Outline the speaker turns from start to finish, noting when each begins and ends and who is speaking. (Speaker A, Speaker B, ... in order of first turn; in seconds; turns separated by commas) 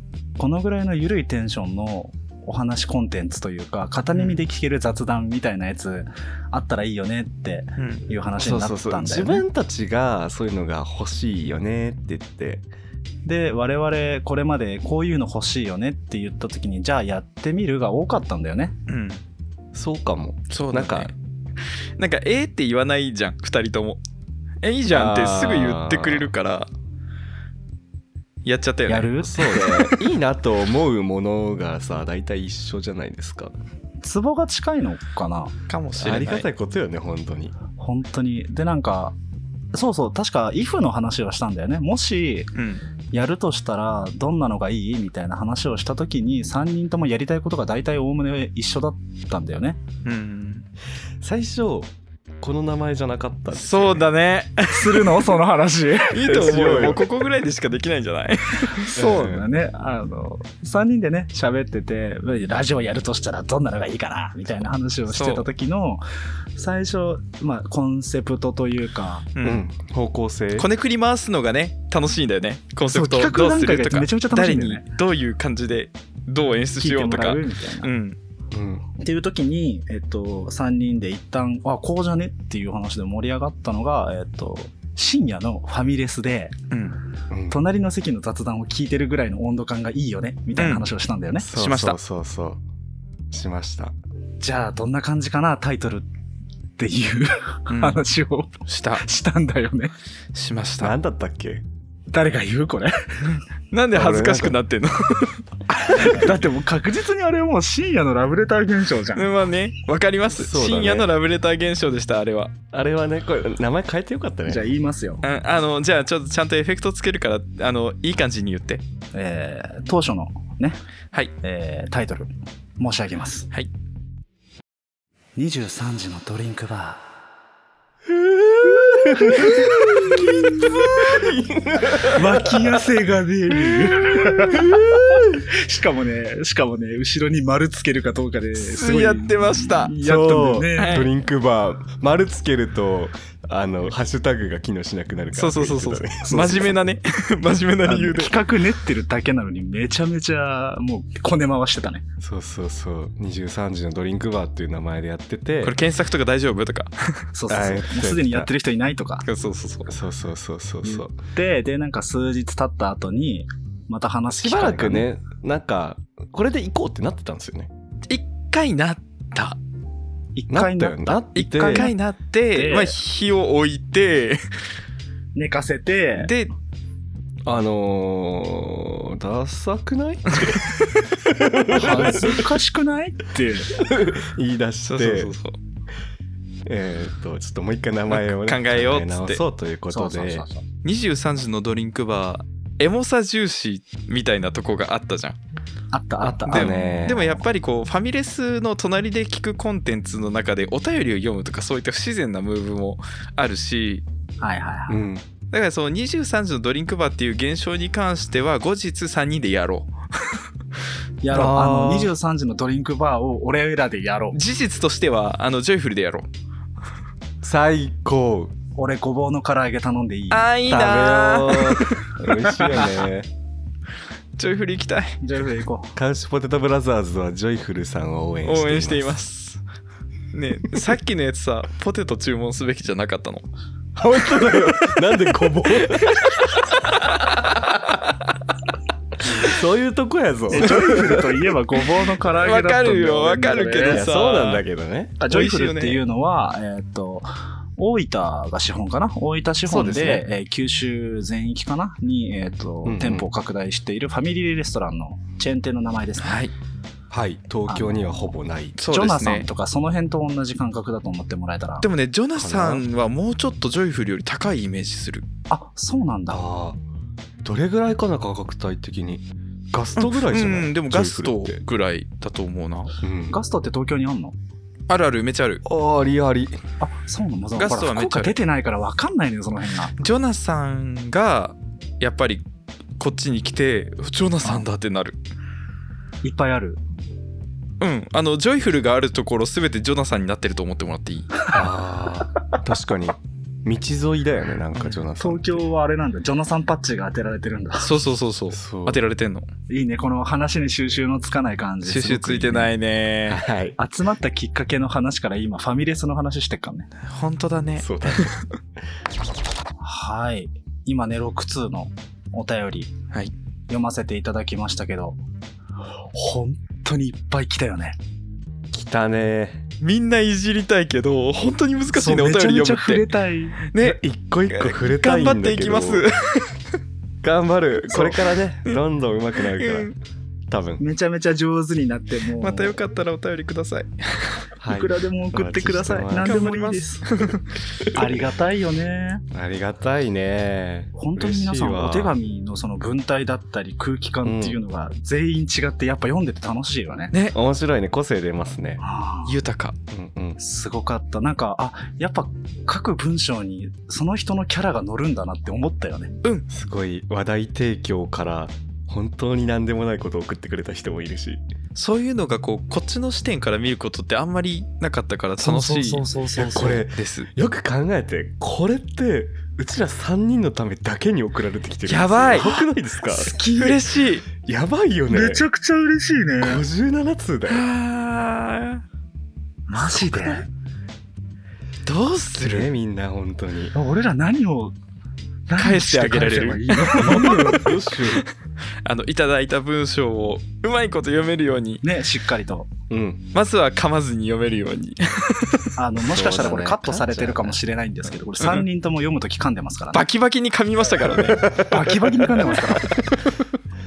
Speaker A: 0.4-9.4, Speaker B: 4.1-4.4, Speaker B: 7.8-8.0, Speaker C: 8.4-12.7, Speaker A: 13.2-18.8, Speaker B: 18.9-19.2, Speaker C: 19.7-21.1, Speaker B: 20.5-21.1, Speaker B: 22.0-24.0, Speaker B: 24.6-26.7, Speaker C: 24.9-26.3, Speaker B: 28.4-29.9, Speaker A: 28.9-29.8, Speaker C: 29.2-33.5, Speaker A: 34.0-35.5, Speaker B: 35.7-36.5, Speaker C: 36.0-37.5, Speaker A: 37.8-39.1, Speaker A: 39.7-42.5, Speaker B: 42.5-42.8, Speaker A: 43.1-49.8, Speaker B: 50.0-50.6, Speaker C: 51.2-54.1, Speaker B: 53.5-55.4, Speaker A: 54.7-56.4, Speaker B: 56.1-59.0, Speaker C: 56.2-57.1, Speaker A: 58.7-66.0, Speaker C: 58.9-59.4, Speaker B: 65.1-65.5, Speaker A: 66.5-69.3, Speaker B: 69.3-69.7, Speaker C: 69.4-70.7, Speaker B: 70.6-78.2, Speaker A: 72.8-74.8, Speaker A: 76.8-77.9, Speaker C: 78.5-78.8, Speaker A: 79.0-86.5, Speaker B: 86.7-87.0, Speaker C: 87.3-87.6, Speaker A: 87.5-91.5, Speaker B: 90.5-90.9, Speaker C: 91.4-92.6, Speaker B: 91.5-92.0, Speaker C: 93.3-93.9, Speaker A: 94.4-96.0, Speaker A: 96.8-99.9, Speaker B: 97.7-98.0, Speaker B: 98.7-99.0, Speaker B: 100.3-100.9, Speaker C: 100.8-101.6, Speaker A: 102.1-103.2, Speaker B: 103.3-105.4, Speaker C: 103.9-104.6, Speaker A: 105.7-109.3, Speaker B: 109.1-112.5, Speaker C: 110.3-111.1, Speaker C: 112.7-114.6, Speaker A: 114.5-115.2, Speaker B: 115.2-118.8, Speaker A: 119.1-120.8, Speaker A: 121.4-123.5, Speaker A: 125.3-127.0, Speaker C: 128.1-132.7, Speaker A: 128.8-130.6, Speaker A: 131.9-141.1, Speaker C: 133.7-135.4, Speaker B: 138.6-140.0, Speaker C: 140.0-146.6, Speaker B: 140.8-141.1, Speaker B: 145.3-148.4, Speaker A: 146.2-146.8, Speaker A: 147.8-152.0, Speaker C: 152.2-155.8, Speaker B: 155.6-157.3, Speaker A: 157.3-159.2, Speaker C: 157.5-158.5, Speaker B: 159.2-159.9, Speaker C: 159.9-161.1, Speaker A: 160.8-165.1, Speaker C: 164.3-167.7, Speaker B: 168.1-169.6, Speaker A: 170.3-171.9, Speaker C: 170.5-171.9, Speaker B: 171.3-174.4, Speaker A: 172.5-172.9, Speaker A: 175.3-176.3, Speaker B: 176.2-176.5, Speaker C: 177.4-182.4, Speaker A: 181.7-183.7, Speaker C: 183.7-185.3, Speaker B: 184.9-185.6, Speaker C: 186.6-190.4, Speaker B: 188.1-189.4, Speaker A: 189.9-190.6, Speaker B: 190.8-195.4, Speaker A: 195.9-196.9, Speaker C: 196.2-197.4, Speaker B: 196.5-204.0, Speaker A: 204.4-205.0, Speaker C: 204.9-205.2, Speaker B: 205.5-210.4, Speaker A: 211.2-214.4, Speaker C: 211.3-212.1, Speaker B: 214.3-216.3, Speaker C: 217.4-218.5, Speaker A: 218.8-220.5, Speaker B: 220.3-223.0, Speaker C: 220.7-223.3, Speaker A: 222.4-222.9, Speaker B: 224.4-225.2, Speaker A: 225.2-225.9, Speaker C: 225.9-229.2, Speaker B: 228.4-229.6, Speaker B: 230.3-233.4, Speaker C: 234.0-236.4, Speaker B: 235.7-237.9, Speaker C: 239.3-241.2, Speaker A: 240.5-244.0, Speaker B: 242.2-244.6, Speaker C: 243.8-245.2, Speaker A: 245.2-256.4, Speaker B: 245.3-246.0, Speaker C: 249.7-250.2, Speaker C: 252.8-253.3, Speaker B: 256.2-256.5, Speaker C: 257.1-258.8, Speaker A: 257.7-258.3, Speaker B: 258.8-259.5, Speaker A: 258.9-261.9, Speaker B: 261.8-265.2, Speaker C: 262.4-262.8, Speaker A: 265.5-266.4, Speaker C: 266.3-266.8, Speaker C: 267.4-271.6, Speaker B: 270.0-272.9, Speaker C: 273.0-273.4, Speaker A: 273.3-274.3, Speaker B: 274.9-275.6, Speaker C: 275.6-276.6, Speaker A: 276.8-279.9, Speaker B: 277.6-278.3, Speaker B: 280.0-282.4, Speaker B: 283.0-285.1, Speaker A: 286.2-286.8, Speaker B: 287.8-291.4, Speaker C: 291.5-295.6, Speaker B: 294.7-295.0, Speaker A: 295.2-298.0, Speaker B: 297.8-299.5, Speaker C: 298.5-299.0, Speaker A: 299.7-302.7, Speaker B: 301.9-303.4, Speaker C: 303.3-303.8, Speaker A: 303.8-306.9, Speaker B: 307.0-308.4, Speaker C: 307.8-308.4, Speaker A: 309.8-312.9, Speaker A: 313.7-315.2, Speaker A: 316.0-318.0, Speaker C: 318.7-319.6, Speaker B: 319.8-323.1, Speaker A: 321.9-323.6, Speaker B: 323.7-326.6, Speaker C: 323.8-326.1, Speaker C: 327.2-329.9, Speaker B: 327.9-328.8, Speaker B: 329.4-329.9, Speaker C: 330.5-330.8, Speaker A: 330.8-332.8, Speaker B: 332.4-334.4, Speaker C: 334.6-336.4, Speaker A: 334.7-337.1, Speaker B: 336.2-337.8, Speaker C: 337.9-338.2, Speaker A: 337.9-339.2, Speaker C: 339.3-342.1, Speaker A: 340.9-347.1, Speaker C: 344.2-344.6, Speaker C: 347.3-348.8, Speaker A: 348.8-349.3, Speaker B: 349.2-349.8, Speaker C: 349.9-350.4, Speaker A: 350.4-356.1, Speaker C: 356.5-361.4, Speaker B: 361.7-367.3, Speaker A: 365.4-366.8, Speaker C: 366.4-373.4, Speaker B: 371.9-372.7, Speaker A: 373.1-373.8, Speaker B: 373.4-374.3, Speaker C: 374.4-375.4, Speaker A: 375.1-376.6, Speaker C: 376.4-377.6, Speaker B: 377.5-378.8, Speaker A: 379.7-380.4, Speaker B: 380.0-380.4, Speaker B: 381.8-382.7, Speaker C: 382.4-383.7, Speaker A: 383.7-384.7, Speaker A: 385.5-387.6, Speaker B: 385.6-388.3, Speaker C: 387.0-388.2, Speaker B: 388.8-391.8, Speaker A: 391.8-392.7, Speaker C: 392.9-393.3, Speaker B: 393.3-395.8, Speaker A: 395.8-400.0, Speaker C: 396.0-397.6, Speaker B: 398.4-398.6, Speaker B: 399.9-401.4, Speaker C: 401.1-402.3, Speaker A: 401.6-402.9